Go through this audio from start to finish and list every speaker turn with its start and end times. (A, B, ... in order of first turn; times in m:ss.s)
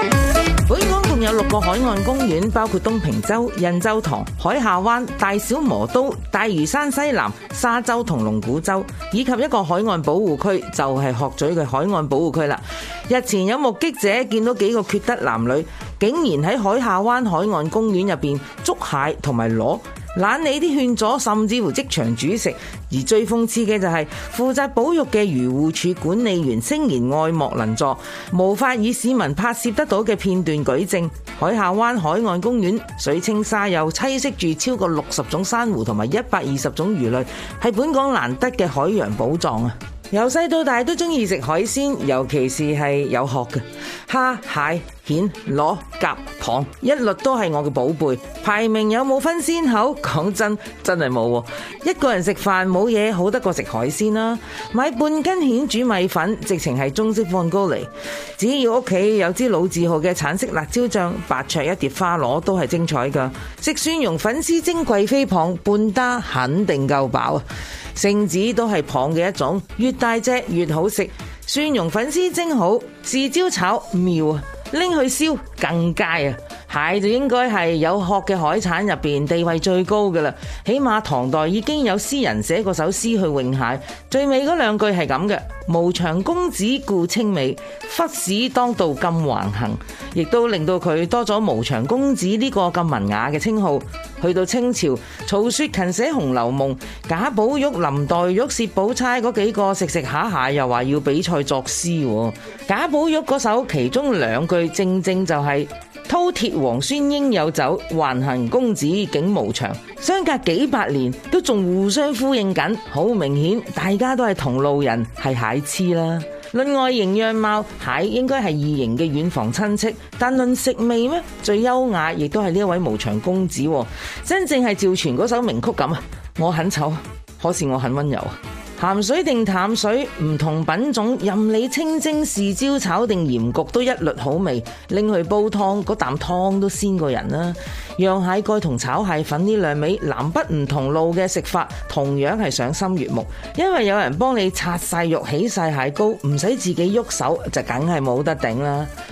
0:00.7-2:28.9 A